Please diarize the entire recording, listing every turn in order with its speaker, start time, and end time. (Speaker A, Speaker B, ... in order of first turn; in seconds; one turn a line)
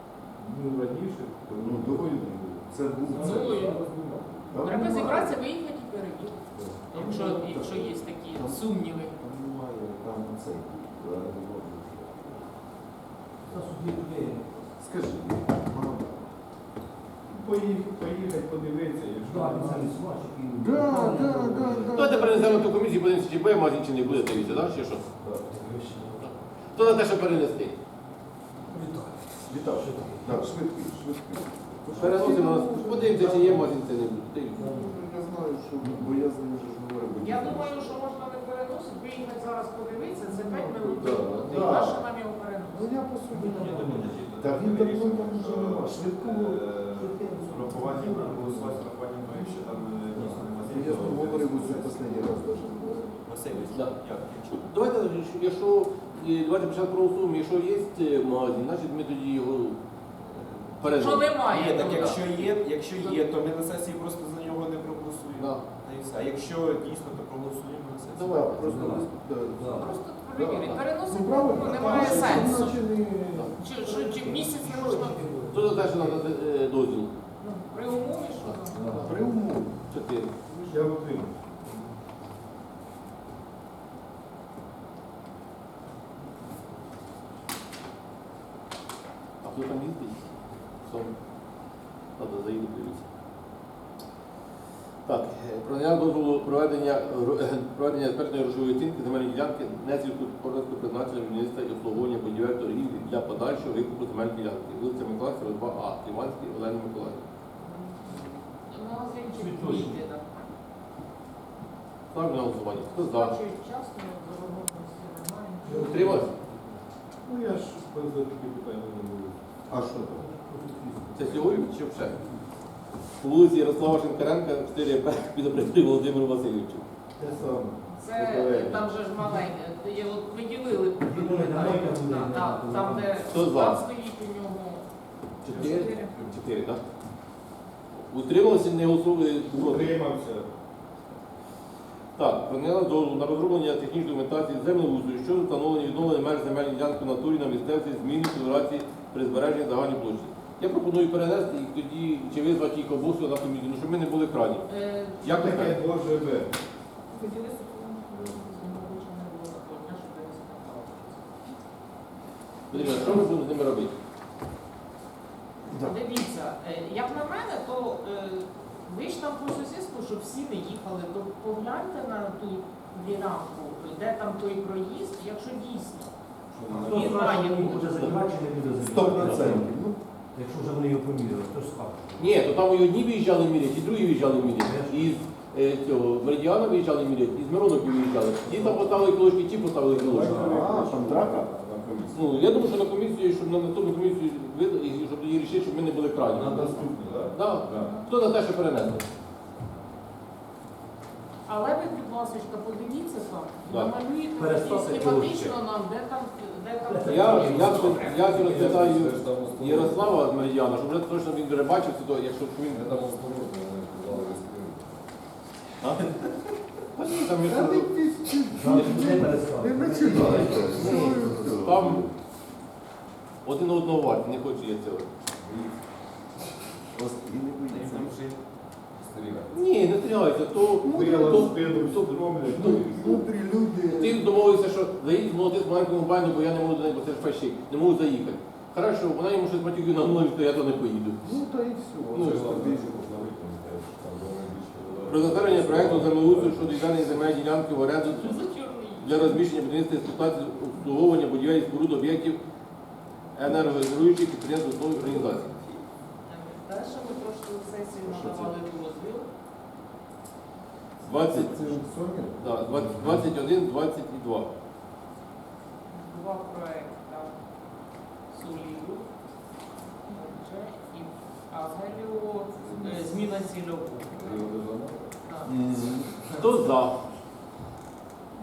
Speaker A: 0.4-5.1
Speaker B: 1.5-3.8
Speaker C: 3.2-3.8
Speaker B: 4.5-5.4
Speaker C: 4.6-9.2
Speaker A: 6.5-6.9
Speaker B: 6.9-12.4
Speaker D: 13.5-14.7
Speaker B: 14.8-16.3
Speaker A: 17.3-20.0
Speaker D: 19.2-22.0
Speaker B: 20.5-22.7
Speaker E: 21.9-25.1
Speaker B: 24.3-24.7
Speaker D: 25.4-26.4
Speaker E: 26.2-27.8
Speaker D: 28.7-30.5
Speaker B: 29.5-33.8
Speaker E: 31.9-34.8
Speaker D: 34.5-35.0
Speaker B: 34.6-38.0
Speaker D: 35.8-36.2
Speaker C: 37.2-42.9
Speaker B: 40.3-42.1
Speaker A: 41.0-41.6
Speaker B: 42.6-46.7
Speaker D: 43.3-44.2
Speaker F: 43.5-54.7
Speaker D: 46.9-50.9
Speaker B: 50.7-53.2
Speaker E: 53.7-59.8
Speaker F: 60.3-60.8
Speaker E: 60.8-62.5
Speaker C: 60.9-62.3
Speaker F: 61.5-68.6
Speaker E: 65.4-65.6
Speaker E: 68.2-68.5
Speaker B: 68.2-73.7
Speaker D: 68.6-69.9
Speaker C: 69.8-72.8
Speaker A: 71.6-72.1
Speaker D: 72.3-72.5
Speaker C: 73.6-75.4
Speaker D: 73.7-76.2
Speaker E: 75.5-77.1
Speaker C: 77.4-79.1
Speaker D: 78.7-79.2
Speaker B: 78.8-79.8
Speaker E: 79.9-80.3
Speaker B: 80.5-80.8
Speaker A: 80.7-81.4
Speaker E: 89.4-90.3
Speaker E: 90.8-91.1
Speaker E: 92.2-93.0
Speaker E: 95.0-107.2
Speaker C: 107.6-110.2
Speaker D: 109.3-110.0
Speaker E: 112.1-113.4
Speaker C: 112.9-116.1
Speaker D: 115.7-116.7
Speaker E: 115.7-116.3
Speaker A: 117.2-119.4
Speaker B: 119.7-120.3
Speaker D: 120.2-121.7
Speaker E: 121.1-122.2
Speaker E: 123.2-126.9
Speaker A: 127.2-128.9
Speaker C: 127.9-134.8
Speaker D: 131.0-133.2
Speaker E: 133.3-133.8
Speaker E: 135.4-136.8
Speaker C: 135.5-136.1
Speaker E: 138.1-139.9
Speaker A: 139.5-140.5
Speaker E: 142.2-154.7
Speaker C: 154.7-155.3
Speaker E: 155.2-155.8
Speaker A: 155.2-156.5
Speaker C: 157.1-161.4
Speaker E: 162.7-163.9
Speaker C: 162.7-163.2
Speaker C: 165.8-176.1
Speaker B: 176.5-177.2
Speaker D: 176.7-179.8
Speaker C: 176.8-178.5
Speaker B: 178.7-180.0
Speaker D: 180.3-182.5
Speaker E: 182.2-190.4
Speaker D: 184.5-185.2
Speaker A: 189.9-191.7
Speaker B: 190.0-192.5
Speaker D: 190.1-190.7
Speaker E: 192.1-199.0
Speaker A: 196.3-197.9
Speaker C: 197.8-198.1
Speaker C: 201.5-208.3
Speaker E: 203.7-203.9
Speaker D: 204.4-205.6
Speaker D: 206.9-208.2
Speaker E: 207.1-213.0
Speaker A: 208.2-209.9
Speaker B: 208.5-210.0
Speaker B: 212.7-215.0
Speaker E: 217.0-217.9
Speaker B: 217.2-222.1
Speaker D: 218.6-221.6
Speaker E: 218.7-219.0
Speaker E: 220.2-222.1
Speaker E: 223.4-225.1
Speaker B: 225.4-225.8
Speaker B: 226.9-228.2
Speaker F: 227.6-228.4
Speaker B: 229.0-229.5
Speaker E: 229.5-233.2
Speaker B: 230.8-234.3
Speaker A: 230.9-233.2
Speaker E: 233.9-241.2
Speaker B: 241.2-243.7
Speaker E: 242.1-242.5
Speaker A: 242.2-246.8
Speaker E: 245.1-248.4
Speaker B: 245.7-246.5
Speaker C: 248.0-249.4
Speaker E: 249.0-252.4
Speaker E: 253.3-255.5
Speaker C: 256.3-259.3
Speaker B: 258.0-258.5
Speaker E: 261.0-264.5
Speaker B: 261.1-263.1
Speaker C: 265.9-267.3
Speaker C: 268.3-269.1
Speaker C: 270.1-274.5
Speaker B: 272.6-273.0
Speaker B: 274.2-276.2
Speaker C: 275.2-276.4
Speaker E: 276.4-277.0